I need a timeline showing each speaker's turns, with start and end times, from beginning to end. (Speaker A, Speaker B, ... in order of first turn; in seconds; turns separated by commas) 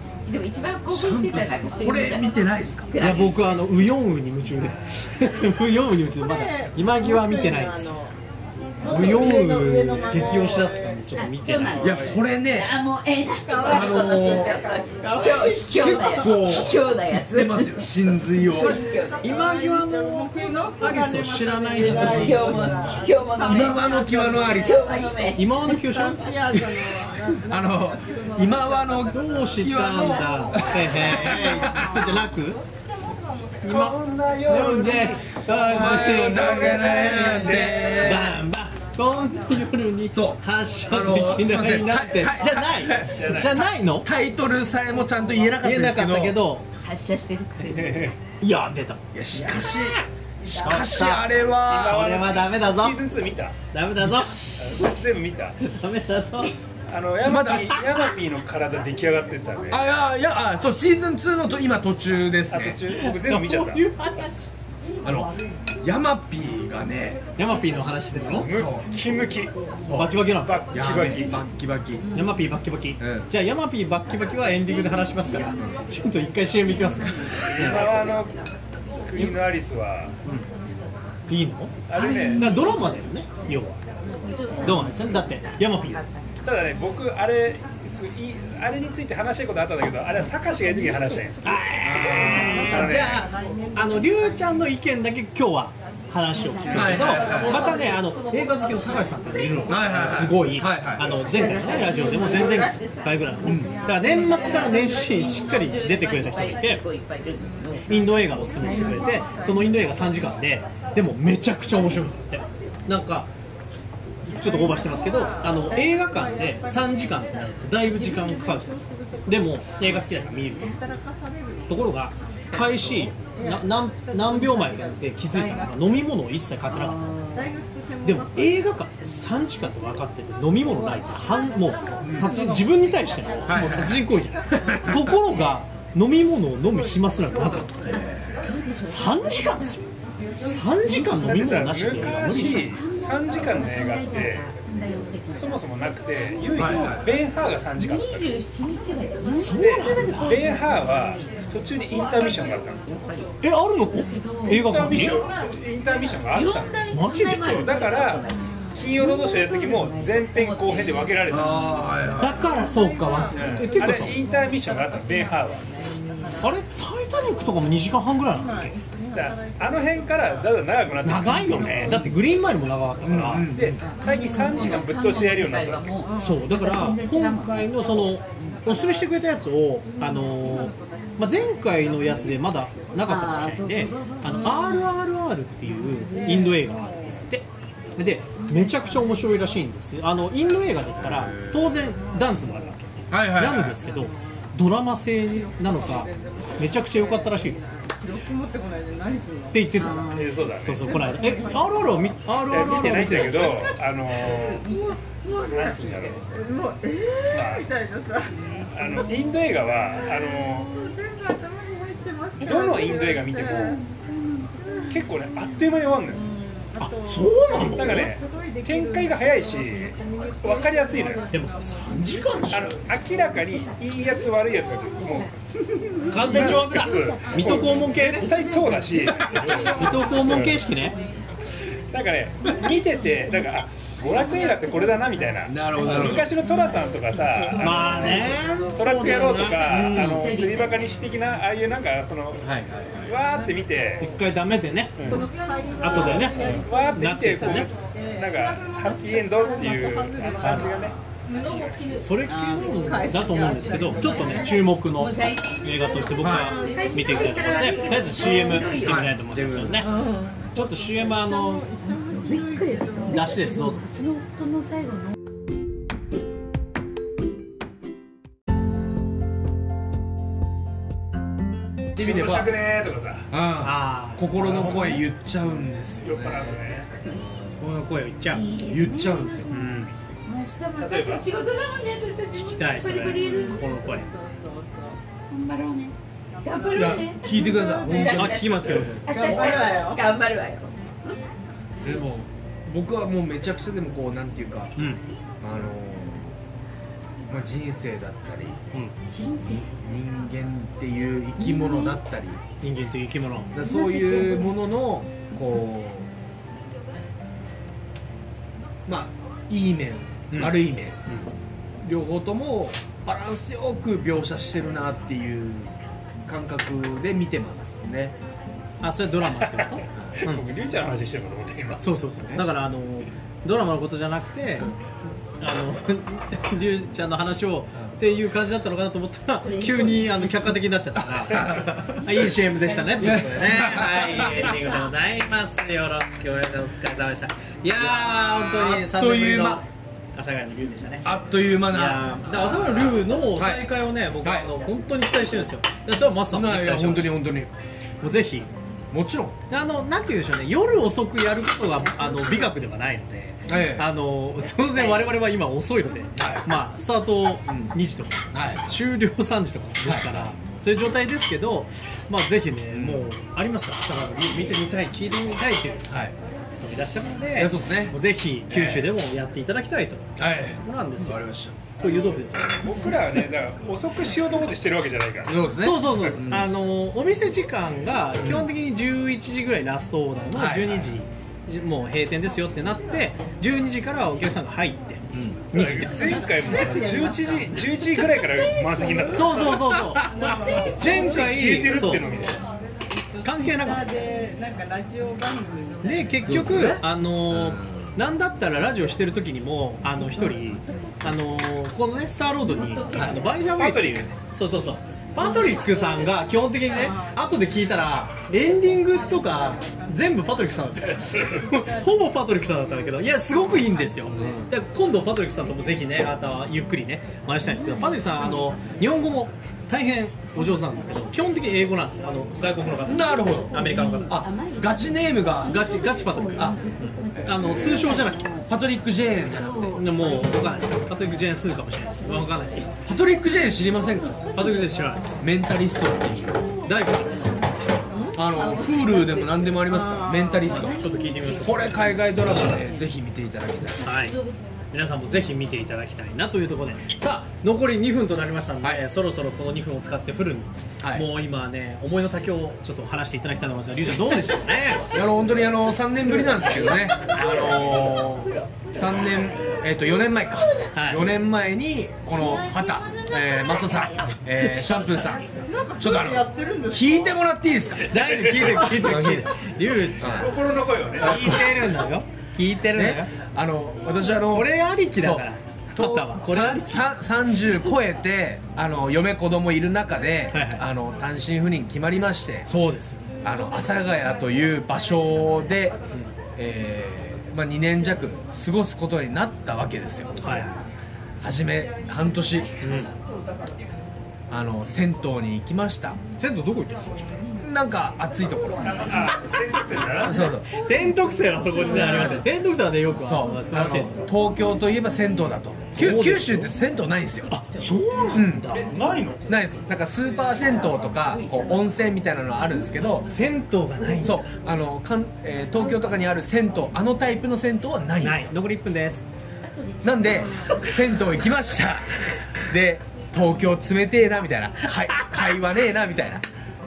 Speaker A: 0.3-3.6, Speaker B: 0.9-2.9, Speaker C: 3.0-7.9, Speaker D: 6.2-8.2, Speaker D: 8.8-11.0, Speaker C: 8.8-12.1, Speaker A: 11.2-19.2, Speaker B: 11.8-12.7, Speaker D: 13.5-16.5, Speaker B: 13.6-14.6, Speaker B: 15.8-18.8, Speaker D: 18.6-34.0, Speaker C: 19.2-23.0, Speaker A: 21.8-25.5, Speaker B: 21.9-22.5, Speaker B: 23.4-24.9, Speaker C: 25.4-26.9, Speaker B: 27.5-32.0, Speaker C: 29.1-32.6, Speaker C: 33.6-44.1, Speaker E: 33.7-38.2, Speaker D: 34.5-35.4, Speaker B: 35.7-38.4, Speaker B: 40.1-46.4, Speaker E: 43.1-43.6, Speaker C: 45.6-46.7, Speaker A: 46.8-48.1, Speaker E: 47.6-48.2, Speaker C: 48.4-49.7, Speaker B: 49.1-52.0, Speaker C: 50.5-53.0, Speaker E: 51.6-53.6, Speaker C: 53.7-54.4, Speaker E: 54.5-55.6, Speaker C: 55.6-56.5, Speaker E: 56.9-59.8, Speaker B: 57.2-57.8, Speaker B: 59.7-62.8, Speaker E: 62.5-63.9, Speaker C: 62.9-64.5, Speaker B: 65.0-67.2, Speaker C: 67.4-68.5, Speaker E: 68.3-69.6, Speaker B: 68.4-68.9, Speaker B: 69.8-72.3, Speaker C: 69.9-70.6, Speaker E: 70.3-71.4, Speaker C: 72.1-77.9, Speaker B: 73.0-73.3, Speaker E: 77.5-78.3, Speaker B: 77.5-77.9, Speaker E: 79.0-80.2, Speaker C: 81.3-81.8, Speaker E: 81.9-82.5, Speaker B: 81.9-82.8, Speaker C: 82.3-83.8, Speaker A: 84.2-86.1, Speaker C: 84.6-86.0, Speaker E: 86.4-93.3, Speaker C: 91.4-106.8, Speaker B: 91.8-92.8, Speaker D: 92.5-94.5, Speaker A: 96.3-98.0, Speaker B: 96.7-97.7, Speaker D: 96.7-99.0, Speaker B: 99.7-101.2, Speaker A: 101.1-108.8, Speaker B: 103.5-103.7, Speaker D: 103.5-105.4, Speaker D: 107.4-110.2, Speaker C: 107.9-113.3, Speaker C: 114.2-120.8, Speaker D: 114.3-117.2, Speaker D: 117.8-125.9, Speaker C: 121.7-127.0, Speaker A: 126.8-127.5, Speaker D: 127.3-128.8, Speaker C: 128.0-138.0, Speaker D: 130.7-134.9, Speaker B: 132.1-132.4, Speaker B: 133.5-135.4, Speaker D: 136.5-138.5, Speaker B: 137.9-138.4, Speaker A: 137.9-141.5, Speaker C: 138.8-139.8, Speaker C: 140.4-142.8, Speaker E: 141.2-144.6, Speaker A: 142.1-145.6, Speaker E: 145.3-148.3, Speaker B: 146.6-147.1, Speaker A: 147.8-152.1, Speaker C: 149.4-150.4, Speaker E: 149.6-152.9, Speaker A: 152.8-153.3, Speaker C: 153.4-155.2, Speaker A: 154.0-154.7, Speaker E: 154.5-161.8, Speaker A: 156.3-161.5, Speaker C: 156.9-157.7, Speaker D: 158.4-158.7, Speaker B: 161.3-162.5, Speaker C: 162.2-164.2, Speaker D: 162.2-166.6, Speaker E: 163.3-165.7, Speaker C: 166.4-168.7, Speaker D: 168.3-170.5, Speaker E: 169.1-172.0, Speaker C: 171.1-173.5, Speaker D: 171.1-172.1, Speaker B: 173.0-173.9, Speaker E: 173.3-176.0, Speaker A: 173.8-177.9, Speaker D: 176.1-176.5, Speaker C: 176.2-197.6, Speaker D: 179.8-183.1, Speaker A: 183.1-184.9, Speaker D: 185.8-187.2, Speaker D: 188.4-189.2, Speaker B: 191.0-191.7, Speaker B: 193.1-193.8, Speaker D: 193.9-194.2, Speaker D: 195.2-199.6, Speaker C: 199.5-200.1, Speaker A: 199.8-200.3, Speaker E: 200.1-201.2, Speaker C: 200.6-203.7, Speaker D: 200.9-203.5, Speaker E: 202.5-204.7, Speaker D: 204.3-209.2, Speaker E: 205.5-206.3, Speaker E: 207.3-207.7, Speaker E: 208.5-210.9, Speaker D: 209.9-213.8, Speaker E: 212.4-213.8, Speaker A: 212.4-212.7, Speaker A: 213.6-215.1, Speaker D: 214.6-215.1, Speaker E: 214.9-216.2, Speaker D: 216.0-222.5, Speaker C: 216.8-218.2, Speaker E: 217.6-221.3, Speaker C: 221.3-222.8, Speaker E: 222.5-225.3, Speaker C: 226.1-228.3, Speaker E: 226.2-230.7, Speaker D: 226.8-229.8, Speaker C: 229.4-231.0, Speaker E: 231.9-244.1, Speaker B: 235.5-236.3, Speaker D: 237.5-239.3, Speaker C: 237.6-240.3, Speaker A: 239.5-240.8, Speaker B: 242.4-243.1, Speaker C: 244.0-245.3, Speaker E: 245.0-245.3, Speaker D: 245.1-251.4, Speaker C: 245.8-247.7, Speaker E: 245.9-251.8, Speaker C: 250.4-250.8, Speaker C: 252.0-260.0, Speaker A: 252.2-253.2, Speaker D: 252.6-254.7, Speaker A: 254.0-259.1, Speaker B: 256.2-256.6, Speaker D: 256.2-258.6, Speaker B: 258.7-259.9, Speaker D: 259.8-263.4, Speaker C: 260.5-261.7, Speaker A: 262.1-265.1, Speaker C: 263.1-263.8, Speaker B: 271.9-272.6, Speaker E: 272.0-273.3, Speaker B: 273.3-276.6, Speaker C: 273.6-275.0, Speaker E: 274.5-275.0, Speaker E: 276.0-276.9, Speaker B: 277.1-277.6, Speaker C: 277.6-278.5, Speaker A: 278.3-279.6, Speaker B: 278.6-279.6, Speaker C: 279.5-279.9, Speaker A: 280.3-283.8, Speaker E: 280.8-281.3, Speaker C: 282.4-284.1, Speaker D: 283.2-285.0, Speaker A: 285.3-291.1, Speaker B: 286.7-289.0, Speaker C: 288.0-289.1, Speaker D: 289.0-290.0, Speaker B: 291.8-296.3, Speaker C: 294.8-295.0, Speaker B: 297.3-298.6, Speaker A: 299.1-299.7, Speaker B: 299.8-302.4, Speaker A: 301.4-302.0, Speaker C: 302.6-303.5, Speaker B: 303.6-306.1, Speaker A: 303.6-304.6, Speaker B: 308.9-311.0, Speaker C: 310.3-311.3, Speaker B: 311.8-315.8, Speaker B: 316.3-318.1, Speaker C: 318.8-320.5, Speaker E: 319.4-319.7, Speaker B: 319.9-320.2, Speaker E: 320.2-321.9, Speaker C: 321.8-324.7, Speaker C: 325.4-347.2, Speaker A: 329.5-330.4, Speaker B: 331.2-332.3, Speaker B: 333.0-334.6, Speaker B: 337.8-339.6, Speaker B: 341.0-343.7, Speaker B: 344.2-344.5, Speaker B: 346.3-347.5, Speaker C: 348.0-348.5, Speaker B: 348.9-349.4, Speaker C: 349.5-365.9, Speaker B: 353.5-353.9, Speaker B: 356.2-356.5, Speaker B: 357.5-357.7, Speaker B: 358.3-358.6, Speaker B: 359.8-360.3, Speaker B: 362.7-363.0, Speaker B: 365.9-366.1, Speaker C: 366.6-371.2, Speaker B: 367.4-368.0, Speaker B: 368.5-368.9, Speaker B: 370.2-371.6, Speaker C: 371.8-373.0, Speaker E: 372.6-376.0, Speaker B: 375.3-376.5, Speaker C: 375.6-386.9, Speaker B: 378.2-378.5, Speaker B: 380.3-380.9, Speaker B: 385.1-385.7, Speaker E: 385.5-389.8, Speaker D: 386.3-387.6, Speaker C: 389.1-392.1, Speaker B: 389.5-390.4, Speaker D: 390.1-390.9, Speaker E: 390.6-392.4, Speaker D: 392.9-396.3, Speaker C: 393.2-393.9, Speaker C: 395.8-424.2, Speaker B: 396.2-397.9, Speaker A: 402.6-403.4, Speaker B: 402.9-403.3, Speaker E: 403.5-404.1, Speaker D: 406.7-407.2, Speaker D: 408.7-410.6, Speaker D: 411.1-412.1, Speaker B: 414.2-414.5, Speaker A: 417.7-418.4, Speaker B: 422.9-425.6, Speaker A: 423.1-428.5, Speaker C: 425.4-428.2, Speaker B: 427.1-428.0, Speaker B: 428.5-429.9, Speaker A: 429.2-430.0, Speaker C: 429.7-432.7, Speaker B: 432.9-434.4, Speaker A: 434.0-434.4, Speaker C: 434.4-435.3, Speaker B: 435.2-436.5, Speaker C: 436.6-437.8, Speaker A: 437.2-437.6, Speaker D: 437.9-438.2, Speaker B: 438.1-440.8, Speaker A: 438.2-439.6, Speaker D: 439.6-440.5, Speaker A: 440.4-441.9, Speaker C: 440.5-442.0, Speaker B: 441.4-443.9, Speaker A: 442.4-442.8, Speaker A: 443.8-444.6, Speaker C: 443.8-444.2, Speaker C: 444.7-454.9, Speaker B: 450.8-451.1, Speaker B: 454.9-469.4, Speaker C: 460.7-461.1, Speaker A: 462.2-462.9, Speaker C: 464.3-465.2, Speaker D: 465.4-467.2, Speaker C: 467.9-470.4, Speaker E: 468.0-468.5, Speaker B: 470.0-470.4, Speaker E: 470.2-471.5, Speaker B: 471.0-471.8, Speaker C: 471.0-473.1, Speaker B: 472.7-482.5, Speaker C: 474.3-476.9, Speaker C: 480.3-480.7, Speaker C: 482.5-483.1, Speaker B: 483.2-485.8, Speaker B: 486.4-490.4, Speaker C: 490.2-490.5, Speaker B: 491.2-492.6, Speaker C: 492.6-492.9, Speaker B: 494.3-496.0, Speaker C: 496.2-497.2, Speaker B: 497.4-499.1, Speaker E: 498.6-500.3, Speaker B: 500.1-500.5, Speaker C: 500.2-504.1, Speaker B: 501.6-502.2, Speaker B: 503.0-507.4, Speaker C: 505.7-506.6, Speaker C: 507.3-508.8, Speaker B: 508.1-508.6, Speaker E: 508.5-509.3, Speaker B: 509.3-513.1, Speaker A: 510.9-511.5, Speaker C: 513.0-514.2, Speaker B: 514.0-518.3, Speaker C: 518.0-519.1, Speaker A: 519.5-520.9, Speaker B: 519.8-521.9, Speaker B: 522.5-526.2